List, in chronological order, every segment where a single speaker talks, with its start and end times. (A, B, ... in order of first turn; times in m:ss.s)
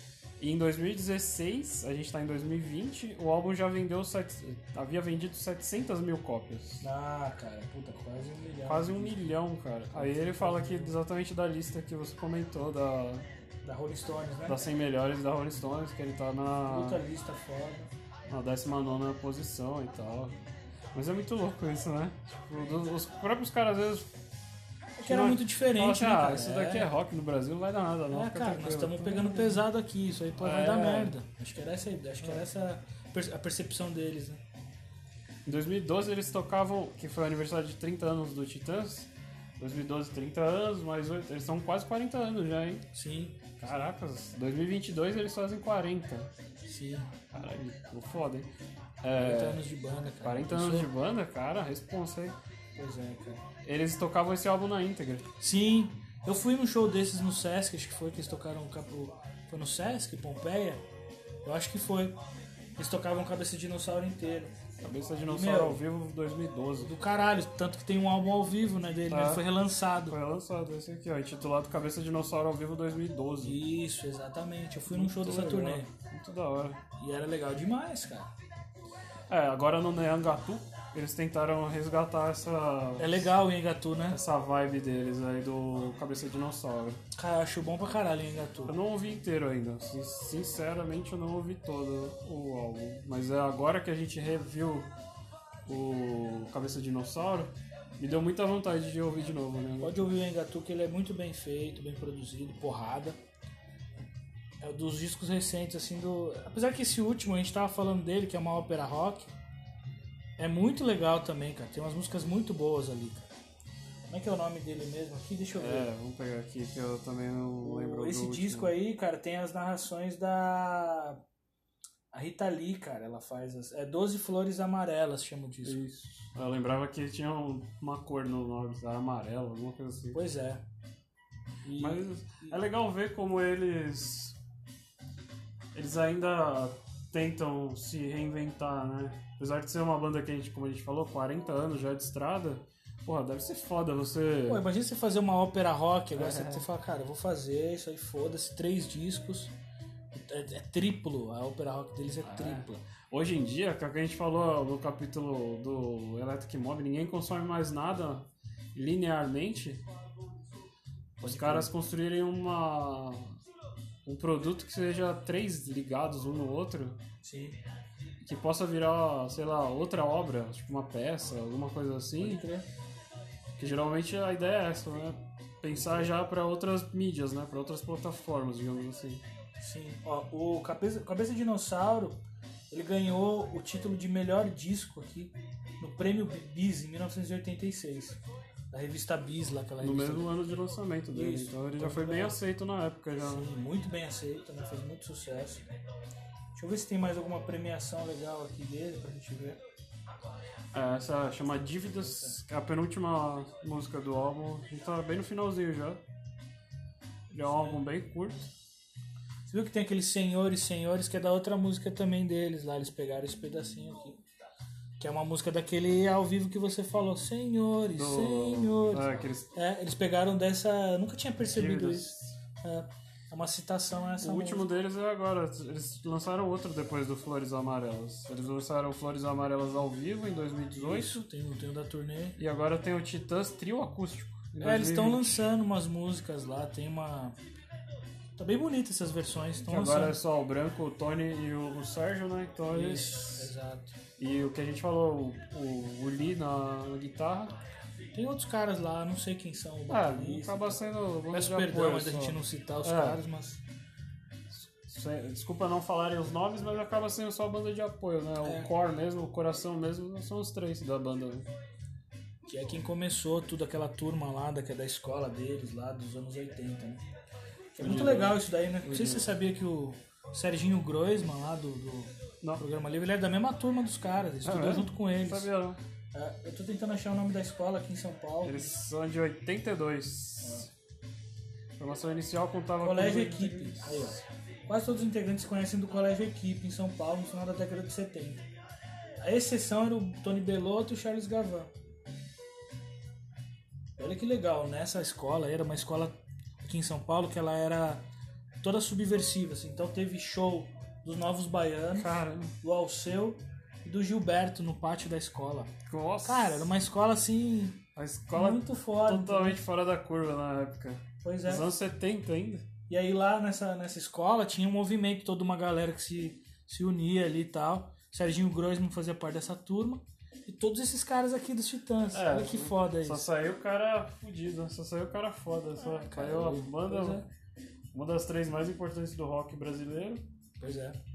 0:00.4-0:06.8 A
0:06.8-0:09.3 B
0:08.6-0:13.2 A
0:09.9-0:11.0 B
0:13.6-0:14.7 B
0:14.5-0:17.0 A
0:16.6-0:17.9 B
0:18.3-0:20.4 A
0:20.9-0:24.1 A
0:25.0-0:26.9 B
0:25.0-0:29.6 A
0:28.1-0:34.4 B
0:30.4-0:31.2 A
0:35.4-0:42.8 A
0:42.9-0:43.5 B
0:43.6-0:46.3 A
0:46.6-0:47.1 B
0:47.3-0:48.5 A
0:49.0-0:49.6 A
0:49.2-0:50.9 B
0:50.2-0:52.4 A
0:52.8-0:53.4 B
0:53.6-0:55.3 A
0:55.4-1:00.8 B
1:01.4-1:02.2 B
1:02.8-1:04.5 B
1:04.8-1:06.9 A
1:05.3-1:05.8 B
1:06.8-1:10.2 B
1:09.1-1:09.4 A
1:10.1-1:13.6 A
1:13.4-1:15.9 B
1:14.9-1:16.8 A
1:17.0-1:18.3 B
1:19.3-1:23.3 A
1:23.0-1:24.2 B
1:24.1-1:27.0 A
1:27.1-1:28.7 B
1:28.6-1:34.9 A
1:35.6-1:40.0 A
1:39.8-1:43.2 B
1:44.6-1:49.3 B
1:50.4-1:53.3 B
1:54.1-1:55.9 B
1:55.6-1:58.7 A
1:57.6-2:01.2 B
2:02.1-2:05.8 B
2:05.6-2:10.2 A
2:10.1-2:10.6 B
2:11.6-2:12.6 B
2:11.8-2:14.4 A
2:15.7-2:24.6 A
2:24.5-2:29.5 B
2:26.1-2:26.7 A
2:30.1-2:32.8 B
2:32.2-2:39.8 A
2:41.2-2:41.7 B
2:41.2-2:43.4 A
2:44.0-2:47.0 A
2:47.2-2:47.6 B
2:48.2-2:52.4 A
2:52.2-2:52.7 B
2:53.6-2:59.2 A
2:59.6-3:02.2 B
3:02.7-3:08.2 B
3:08.7-3:10.6 B
3:09.8-3:13.5 A
3:11.1-3:12.4 B
3:13.2-3:15.7 B
3:16.6-3:19.6 B
3:20.7-3:26.0 A
3:27.3-3:28.5 A
3:27.4-3:27.8 B
3:29.5-3:34.2 B
3:35.0-3:44.6 B
3:37.9-3:39.5 A
3:41.4-3:42.3 A
3:44.2-3:51.2 A
3:50.8-3:52.4 B
3:52.4-3:55.4 A
3:54.6-3:57.4 B
3:58.4-4:00.2 B
3:59.7-4:03.5 A
4:02.7-4:04.0 B
4:04.2-4:07.6 A
4:08.1-4:10.8 B
4:09.9-4:13.2 A
4:11.3-4:13.6 B
4:14.5-4:21.5 A
4:22.5-4:27.0 B
4:27.7-4:35.5 B
4:27.8-4:29.3 A
4:34.4-4:35.8 A
4:36.1-4:38.7 B
4:38.4-4:40.7 A
4:40.4-4:40.7 B
4:41.8-4:44.2 A
4:42.8-4:48.5 B
4:49.2-4:51.7 B
4:54.0-4:58.0 B
4:58.6-5:05.7 B
5:01.9-5:02.6 A
5:05.8-5:06.7 A
5:06.2-5:09.6 B
5:08.0-5:12.7 A
5:11.2-5:11.7 B
5:12.9-5:23.3 B
5:22.1-5:27.2 A
5:26.1-5:27.3 B
5:27.9-5:30.2 A
5:30.6-5:31.0 B